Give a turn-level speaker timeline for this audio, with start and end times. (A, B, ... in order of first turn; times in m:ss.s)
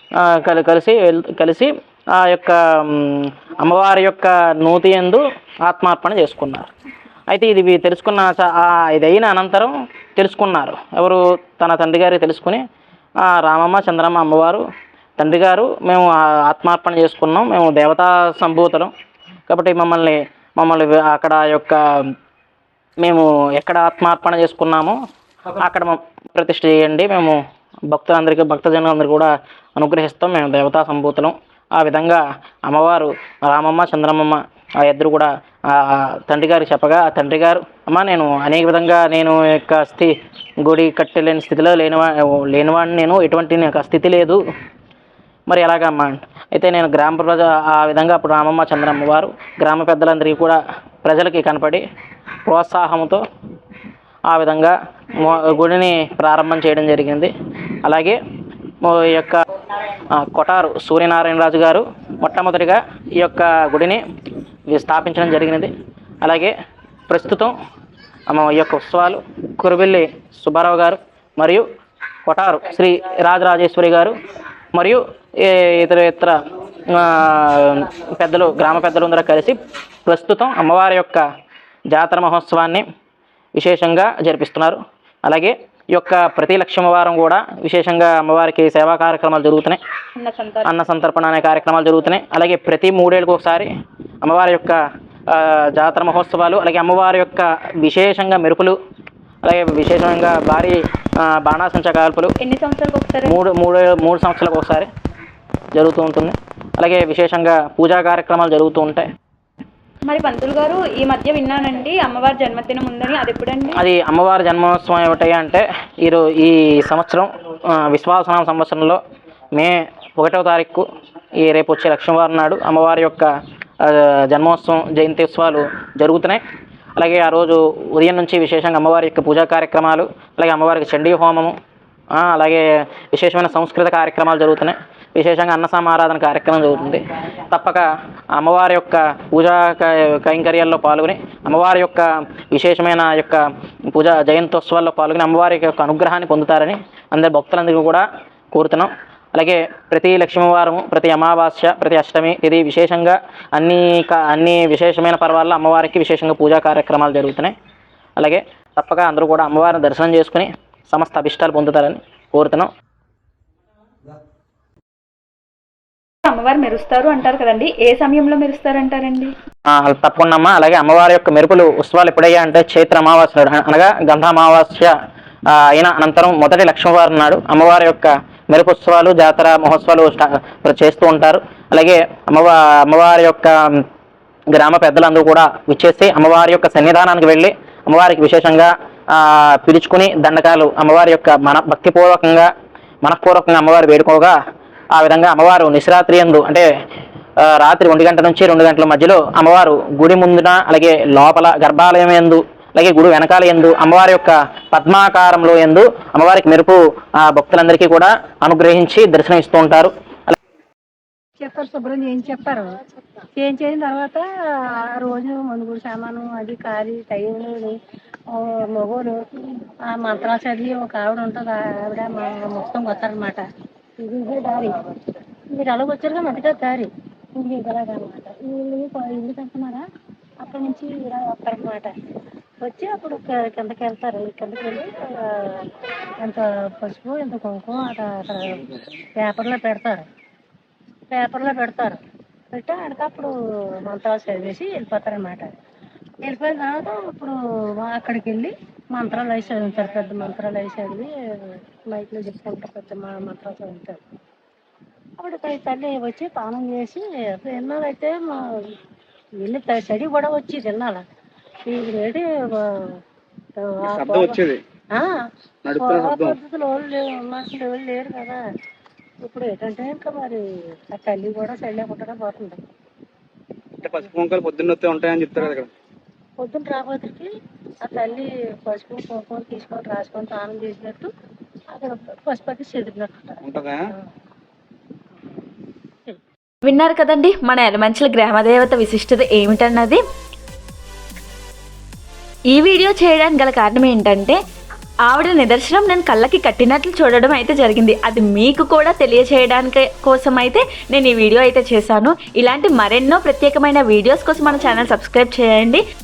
0:00.2-0:06.7 A
0:07.3-0:12.6 A
0:13.2-0:14.6 A
0:15.2-0:18.9 A
0:19.5-0:21.8 A
0:23.0-0:25.0 A
0:25.5-0:27.4 A
0:27.9-0:44.4 A
0:45.5-0:51.8 A
0:52.4-0:53.2 A
0:54.3-0:57.3 A
0:57.8-0:58.2 A
0:58.8-1:04.0 A
1:04.7-1:06.5 A
1:07.1-1:07.5 A
1:08.3-1:11.6 A
1:12.2-1:14.1 A
1:14.7-1:21.2 A
1:21.9-1:22.8 A
1:23.6-1:29.8 A
1:30.2-1:30.7 B
1:30.6-1:33.7 A
1:34.2-1:38.8 A
1:39.4-1:42.3 A
1:42.4-1:43.4 B
1:43.3-1:44.9 A
1:45.7-1:49.1 A
1:50.0-1:53.8 B
1:53.8-1:59.0 A
1:59.5-2:00.8 A
2:01.4-2:03.3 A
2:03.8-2:06.4 A
2:07.0-2:11.5 A
2:12.1-2:37.5 A
2:38.2-2:42.7 A
2:46.2-2:49.3 B
2:49.6-2:54.9 A
2:55.5-3:03.8 A
3:04.5-3:12.5 A
3:13.0-3:14.3 A
3:14.9-3:16.6 A
3:17.4-3:30.3 A
3:31.4-3:32.7 C
3:33.4-3:34.2 C
3:34.9-3:37.7 C
3:38.3-3:43.4 C
3:44.0-3:44.7 C
3:45.5-3:49.8 C
3:50.4-3:51.9 C
3:52.6-3:55.7 C
3:56.2-4:00.0 C
4:01.1-4:02.0 C
4:02.5-4:03.3 C
4:03.8-4:05.5 C
4:06.2-4:11.1 C
4:11.9-4:14.0 C
4:15.2-4:18.4 C
4:19.4-4:21.0 C
4:21.6-4:23.0 C
4:23.6-4:24.4 C
4:23.9-4:24.6 D
4:25.6-4:26.4 D
4:25.8-4:28.4 C
4:29.2-4:32.6 C
4:33.8-4:35.7 D
4:36.4-4:37.3 C
4:37.8-4:41.1 C
4:41.7-4:43.4 C
4:43.4-4:43.8 D
4:46.6-4:50.0 E
4:52.5-4:54.4 E
4:55.1-5:05.8 E